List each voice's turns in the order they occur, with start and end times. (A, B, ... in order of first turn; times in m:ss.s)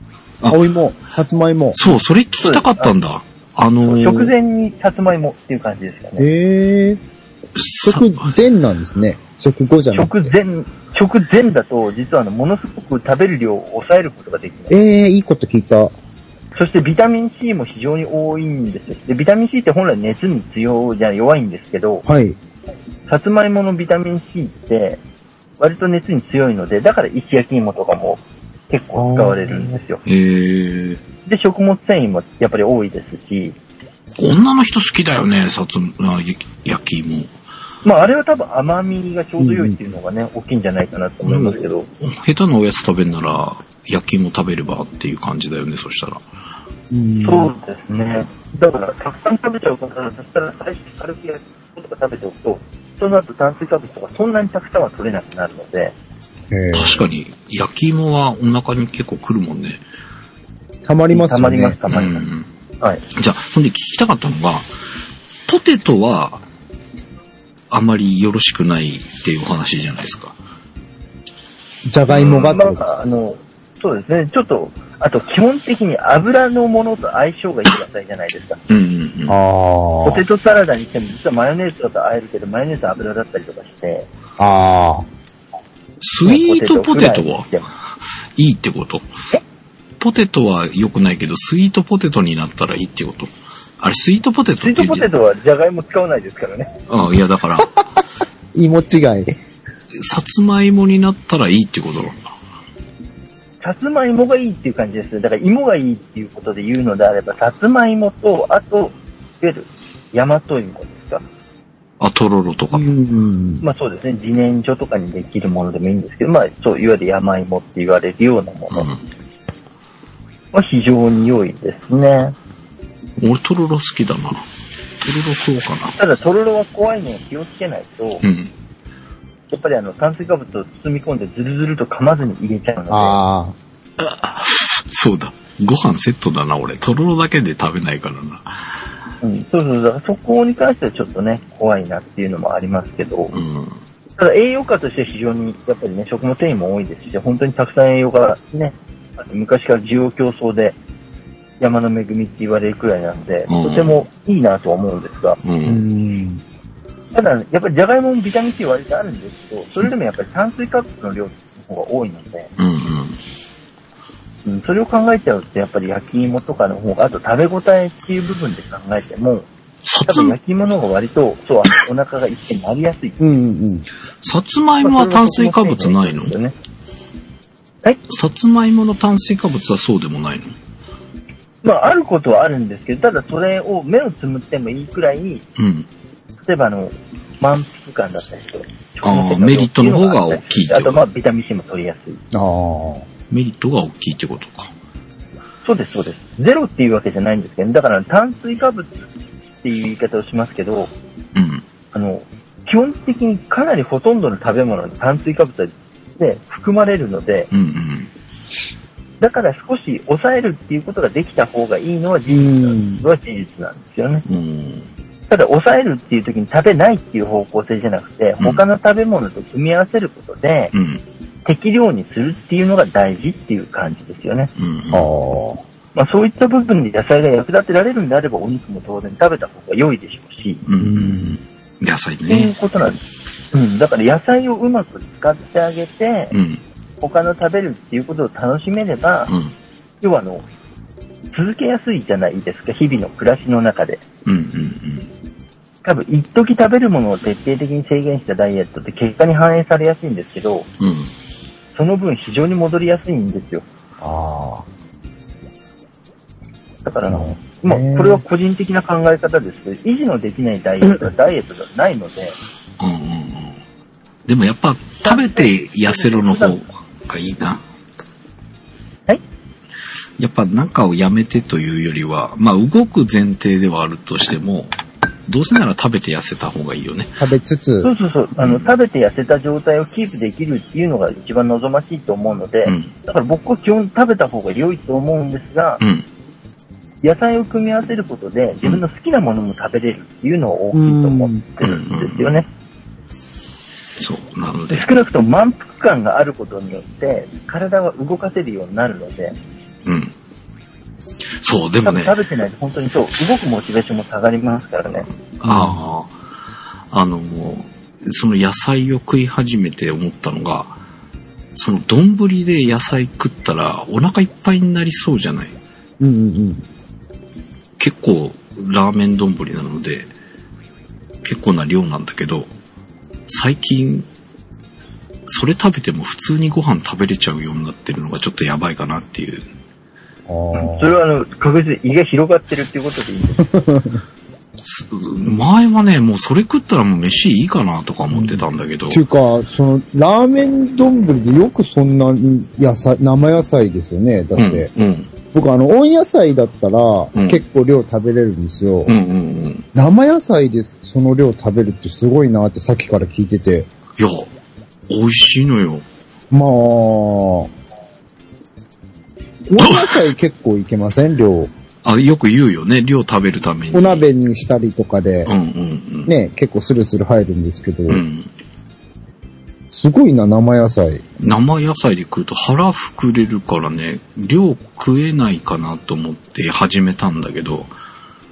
0:00.5-0:01.8 A
0:01.8-0:04.3 B
0:02.4-0:02.9 C
0:03.8-0:06.3 C
0:06.2-0:07.0 A
0:07.6-0:08.4 B
0:07.8-0:10.3 A
0:09.9-0:14.7 C
0:14.7-0:15.9 A
0:16.6-0:22.0 C
0:22.0-0:22.4 A
0:23.1-0:25.0 C
0:25.6-0:30.0 C
0:29.0-0:29.8 A
0:30.1-0:31.0 B
0:31.2-0:33.6 C
0:34.2-0:37.3 B
0:37.8-0:41.9 C
0:39.4-0:39.8 A
0:41.2-0:46.2 B
0:46.9-0:47.5 A
0:47.2-0:56.0 C
0:56.5-0:57.0 A
0:56.7-0:59.8 B
1:00.8-1:01.8 A
1:01.1-1:02.3 C
1:01.9-1:02.5 B
1:03.1-1:04.7 B
1:05.5-1:06.4 B
1:07.7-1:10.4 B
1:11.9-1:13.0 A
1:12.1-1:12.5 B
1:12.5-1:18.6 C
1:18.7-1:19.4 B
1:19.3-1:20.2 A
1:20.0-1:24.1 C
1:24.4-1:25.1 A
1:26.0-1:27.5 B
1:26.2-1:27.7 C
1:28.4-1:29.2 B
1:30.0-1:35.1 B
1:34.6-1:36.7 C
1:36.9-1:37.7 B
1:38.6-1:39.4 A
1:39.9-1:42.2 B
1:43.6-1:51.2 C
1:52.0-1:52.9 B
1:52.7-1:53.6 A
1:53.6-1:58.9 C
1:58.7-1:59.0 B
2:00.5-2:02.4 C
2:03.2-2:04.5 B
2:05.0-2:06.0 B
2:06.0-2:08.2 C
2:08.2-2:08.5 B
2:09.5-2:13.2 C
2:12.9-2:13.6 A
2:14.0-2:18.6 B
2:19.2-2:23.3 C
2:23.3-2:23.8 B
2:24.2-2:30.8 C
2:31.6-2:35.4 C
2:33.5-2:34.0 B
2:35.4-2:35.8 B
2:35.6-2:36.4 A
2:37.1-2:42.5 C
2:42.6-2:43.2 B
2:44.4-2:49.5 C
2:49.8-2:50.4 B
2:50.0-2:53.2 C
2:53.2-2:53.9 A
2:54.2-2:56.4 B
2:54.8-2:56.5 C
2:58.1-3:00.6 B
3:01.6-3:05.4 C
3:05.6-3:05.9 B
3:06.4-3:12.2 C
3:09.0-3:11.0 B
3:12.3-3:13.1 A
3:13.3-3:14.7 B
3:15.6-3:19.1 C
3:19.6-3:20.9 C
3:21.4-3:21.6 B
3:21.9-3:27.5 C
3:27.5-3:28.1 B
3:29.2-3:34.2 C
3:32.3-3:33.0 A
3:34.3-3:34.9 B
3:35.3-3:40.7 C
3:40.7-3:41.0 B
3:41.4-3:44.5 C
3:44.6-3:45.1 B
3:44.9-3:45.6 A
3:46.0-3:50.6 C
3:50.7-3:52.6 B
3:50.8-3:51.3 A
3:52.3-3:53.0 C
3:53.5-3:56.3 C
3:56.3-3:56.6 B
3:57.0-3:59.3 C
3:59.3-3:59.5 B
4:00.0-4:00.5 C
4:01.3-4:04.0 C
4:04.3-4:05.1 B
4:05.8-4:10.7 C
4:10.8-4:11.1 B
4:11.8-4:13.6 C
4:14.0-4:14.7 A
4:16.8-4:22.4 C
4:17.1-4:18.2 A
4:22.8-4:23.6 B
4:24.3-4:27.6 B
4:25.0-4:26.6 C
4:30.2-4:34.7 B
4:35.3-4:37.1 B
4:37.2-4:37.9 A
4:37.8-4:45.8 C
4:38.4-4:38.7 B
4:42.6-4:42.9 B
4:47.0-4:52.5 C
4:50.7-4:51.5 A
4:51.6-4:52.4 B
4:54.0-4:54.9 B
4:54.7-4:59.4 C
4:59.8-5:00.1 B
5:01.4-5:02.2 B
5:01.8-5:05.1 C
5:05.4-5:06.2 B
5:05.4-5:05.8 A
5:06.9-5:10.8 B
5:11.6-5:15.6 B
5:16.0-5:16.7 A
5:17.8-5:20.1 B
5:21.2-5:22.5 B
5:23.3-5:24.1 B
5:25.3-5:29.5 B
5:30.3-5:31.0 A
5:30.5-5:33.4 C
5:33.4-5:34.0 A
5:34.6-5:39.0 B
5:38.1-5:44.7 A
5:44.4-5:45.1 B
5:45.3-5:49.0 A
5:47.2-5:47.4 B
5:48.9-5:49.7 B
5:49.7-5:53.7 A
5:54.0-5:54.3 B
5:54.9-5:55.8 B
5:56.3-5:57.5 A
5:59.5-6:01.5 A
5:59.6-6:00.1 B
6:01.8-6:04.1 B
6:03.7-6:05.3 A
6:05.2-6:06.1 B
6:06.1-6:08.0 A
6:07.9-6:08.3 B
6:09.7-6:11.0 A
6:11.2-6:17.7 B